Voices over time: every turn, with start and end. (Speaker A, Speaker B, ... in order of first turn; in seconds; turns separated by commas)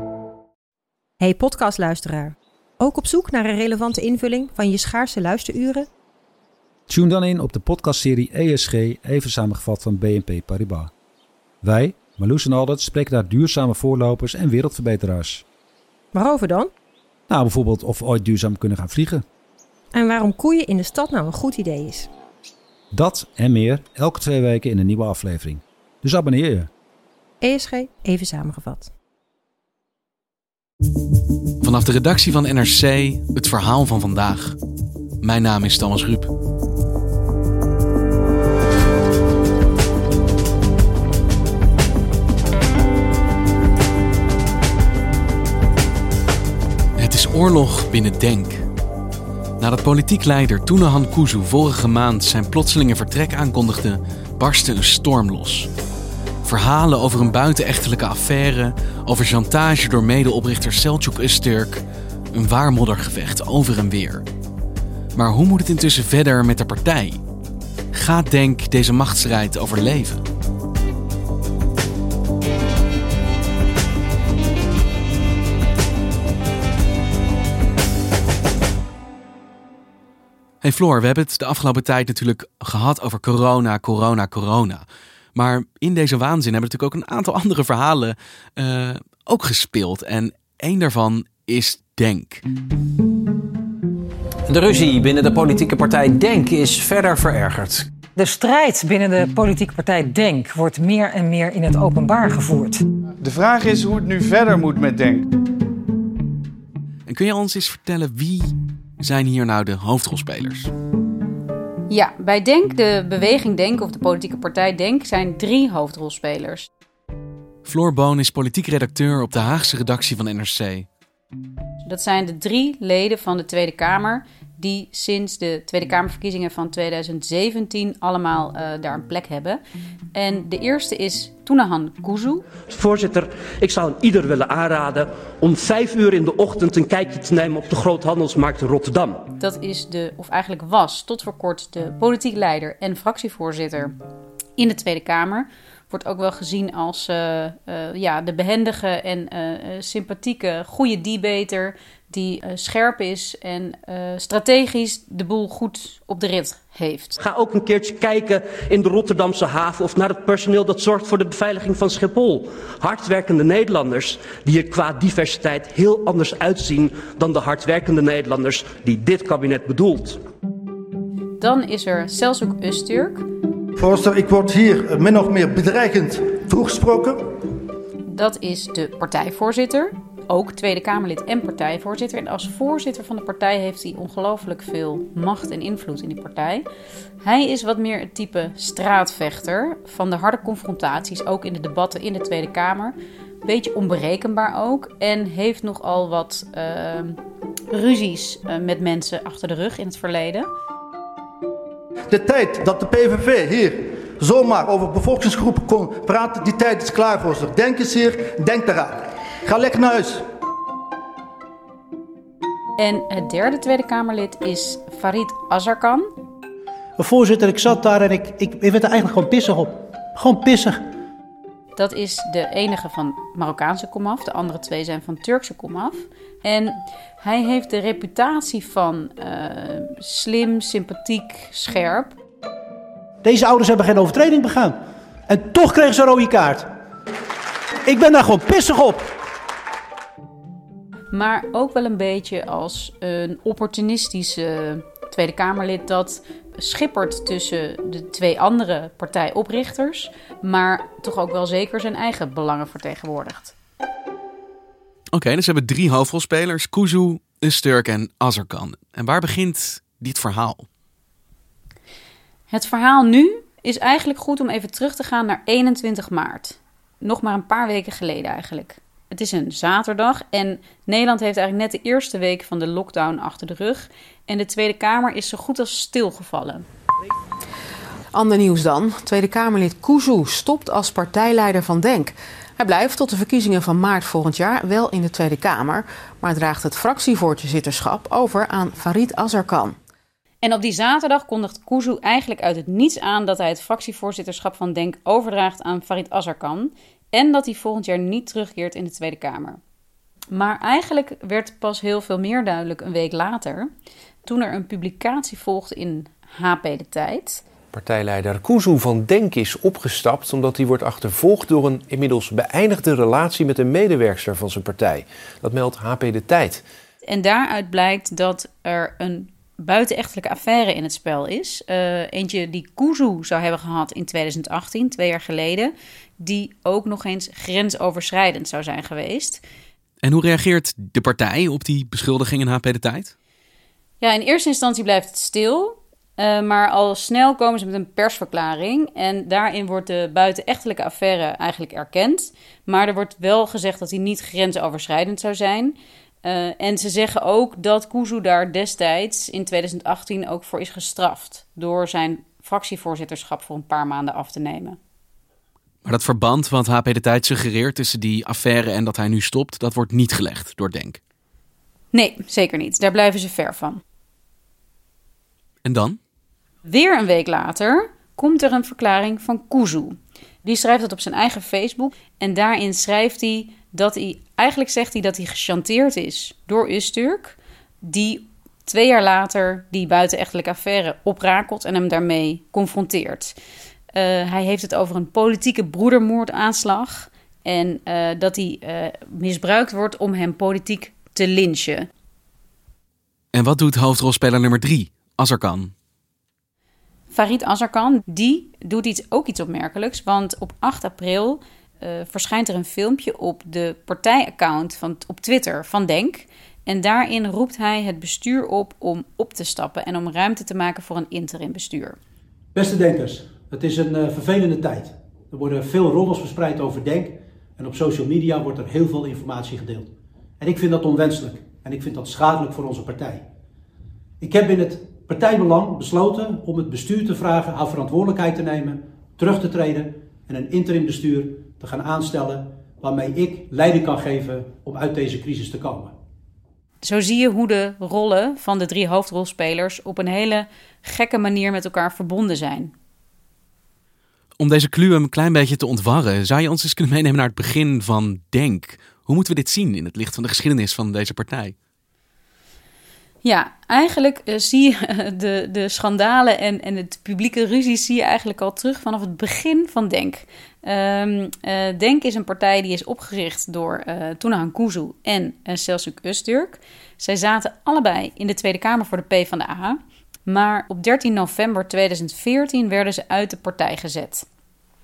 Speaker A: 1.2-5.9, Speaker B: 6.9-10.9, Speaker B: 11.6-15.4, Speaker A: 16.1-16.7, Speaker B: 17.3-19.2, Speaker A: 19.9-22.1, Speaker B: 22.9-26.7, Speaker A: 27.4-28.9, Speaker C: 31.6-34.6, Speaker C: 35.2-36.3, Speaker C: 47.0-48.6, Speaker C: 49.6-55.7, Speaker C: 56.4-61.8, Speaker C: 62.3-64.2, Speaker C: 65.2-67.2, Speaker C: 67.9-70.2, Speaker C: 80.6-84.8, Speaker C: 85.3-92.5, Speaker D: 94.5-97.9, Speaker E: 98.2-102.8, Speaker F: 103.2-105.3, Speaker C: 107.1-110.7, Speaker G: 111.9-116.7, Speaker C: 117.7-120.9, Speaker G: 121.8-129.6, Speaker G: 130.2-132.4, Speaker H: 132.7-139.3, Speaker G: 139.4-143.9, Speaker G: 144.6-157.2, Speaker H: 157.2-170.2, Speaker G: 171.4-173.3, Speaker I: 173.8-177.2, Speaker G: 178.1-186.7, Speaker G: 187.2-197.2, Speaker G: 197.7-200.5, Speaker I: 202.1-210.2, Speaker G: 212.8-216.1, Speaker J: 217.0-220.8, Speaker G: 221.8-232.2, Speaker J: 233.2-234.8, Speaker J: 235.3-236.7, Speaker J: 237.8-239.1, Speaker G: 241.1-253.6, Speaker C: 255.1-260.7, Speaker G: 262.5-276.6, Speaker K: 278.1-289.8, Speaker G: 290.4-299.6, Speaker G: 300.3-303.7, Speaker G: 304.2-307.4, Speaker L: 307.7-316.6, Speaker G: 317.1-329.4, Speaker C: 330.0-333.1, Speaker G: 334.0-354.8, Speaker C: 355.8-361.0, Speaker G: 361.9-363.8, Speaker C: 365.6-366.0, Speaker G: 366.7-383.3, Speaker G: 383.9-391.9, Speaker C: 393.3-395.7, Speaker G: 397.1-412.0, Speaker J: 412.5-423.2, Speaker J: 424.2-435.9, Speaker G: 436.8-442.7, Speaker C: 444.4-451.6, Speaker G: 453.2-474.3